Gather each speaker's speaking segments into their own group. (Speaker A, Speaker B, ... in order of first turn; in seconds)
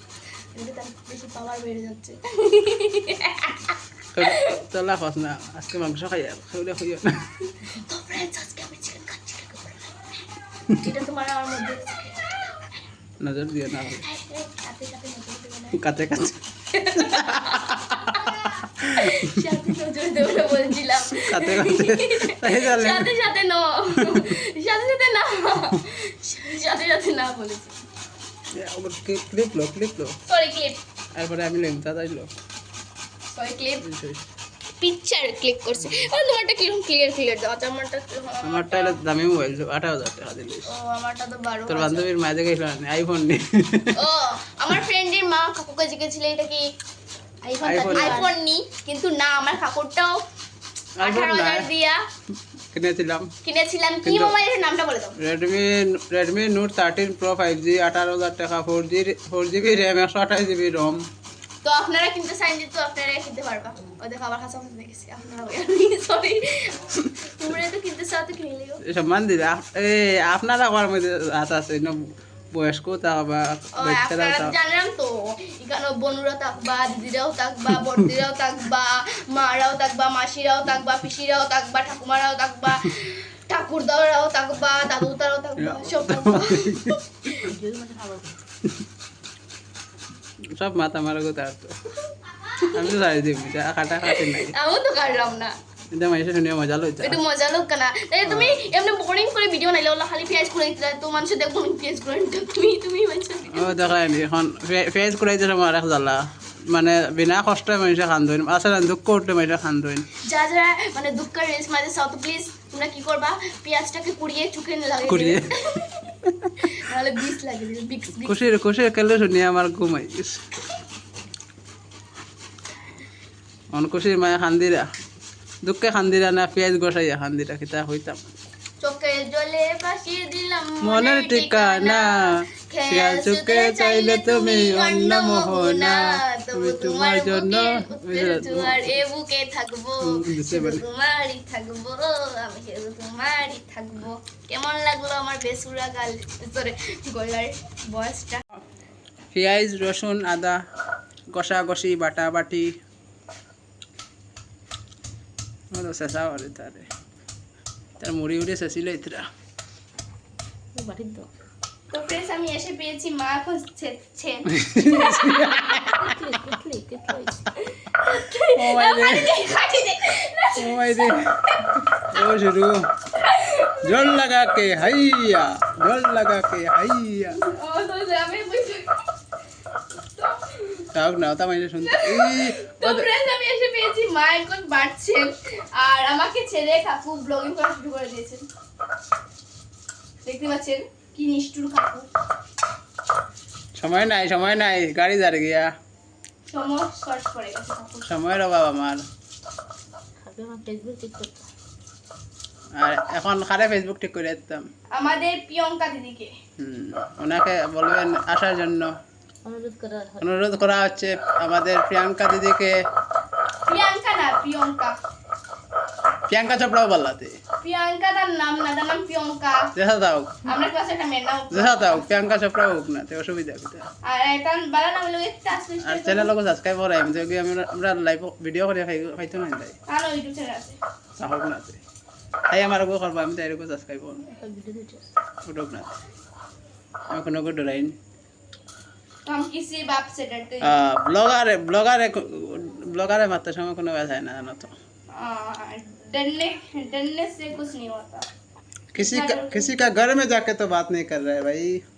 Speaker A: 0.5-4.5, 7.5-10.0, 10.8-12.8, 14.0-15.8, 16.7-27.8, 30.2-30.8, 33.3-33.8, 34.8-39.0, 40.7-42.1, 43.9-46.7, 47.6-50.2, 51.0-52.0, 53.4-55.2, 61.6-68.8, 73.8-87.5, 92.0-92.9, 94.0-95.5, 97.0-104.0, 110.2-118.4, 128.8-148.4, 161.9-165.8, 167.6-171.8, 173.1-174.3, 177.3-179.0, 180.2-180.9, 181.8-188.4, 190.2-192.1, 196.4-198.1, 204.9-206.3, 213.7-214.9, 217.6-219.7, 220.4-222.0, 224.0-226.3, 229.9-230.8, 239.2-240.7, 245.1-248.3, 248.9-249.9
Speaker B: 4.1-7.2, 13.2-14.0, 15.8-19.3, 21.1-23.1, 24.0-24.3, 28.6-30.1, 31.1-32.3, 33.8-34.2, 38.4-40.7, 41.7-44.0, 47.6-48.2, 51.0-51.7, 52.7-53.3, 54.0-54.4, 55.2-61.0, 68.8-74.5, 77.8-78.0, 85.6-87.0, 90.5-91.7, 92.6-94.5, 95.9-97.2, 98.2-98.6, 103.5-110.1, 115.0-115.6, 116.2-116.8, 118.2-120.4, 123.7-124.9, 125.6-128.2, 130.8-139.0, 140.0-140.8, 149.3-150.6, 151.3-152.7, 155.7-156.9, 158.0-159.2, 164.5-166.1, 168.5-169.3, 170.6-172.9, 173.8-177.4, 180.9-183.1, 193.8-195.7, 198.1-199.0, 202.8-204.7, 206.6-208.9, 210.2-212.8, 216.3-217.4, 219.7-220.4, 221.5-223.9, 225.8-229.8, 231.2-231.8, 232.5-234.3, 235.4-235.9, 237.1-237.9, 240.6-244.7, 248.9-251.8
Speaker C: 47.4-48.3, 87.4-88.4, 160.7-161.3, 165.8-167.4, 200.2-201.4, 209.4-210.2, 234.3-235.1